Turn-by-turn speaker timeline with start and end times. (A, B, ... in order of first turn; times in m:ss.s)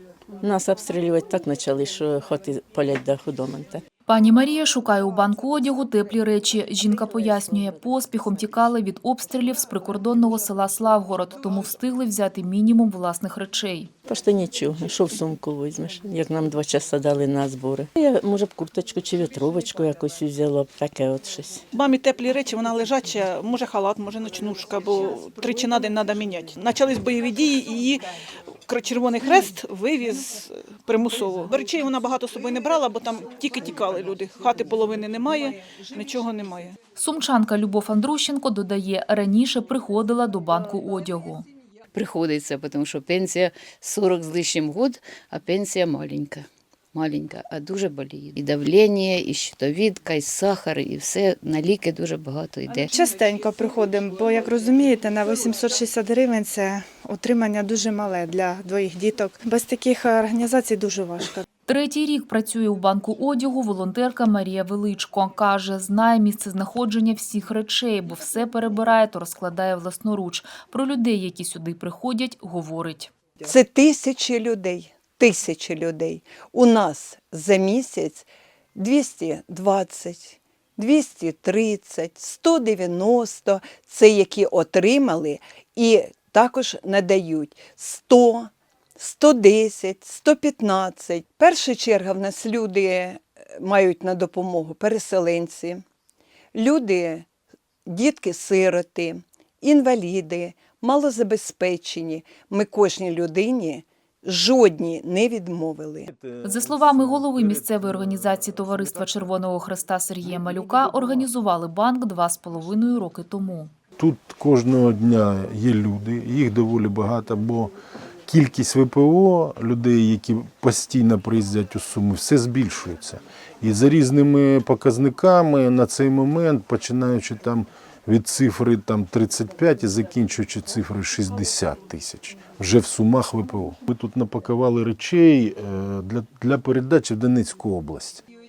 0:00.4-0:03.8 A
0:04.1-0:13.9 B
0:14.1-0:21.6 A
0:21.7-0:28.1 C
0:28.7-0:36.8 C
0:36.9-0:41.4 B
0:41.9-0:52.9 D
0:52.9-1:01.4 E
1:01.7-1:13.1 B
1:13.4-1:35.8 F
1:36.5-1:37.2 F
1:37.8-1:46.1 F
1:46.1-1:49.3 G
1:46.4-1:53.7 B
1:54.0-1:57.7 G
1:58.3-2:18.2 G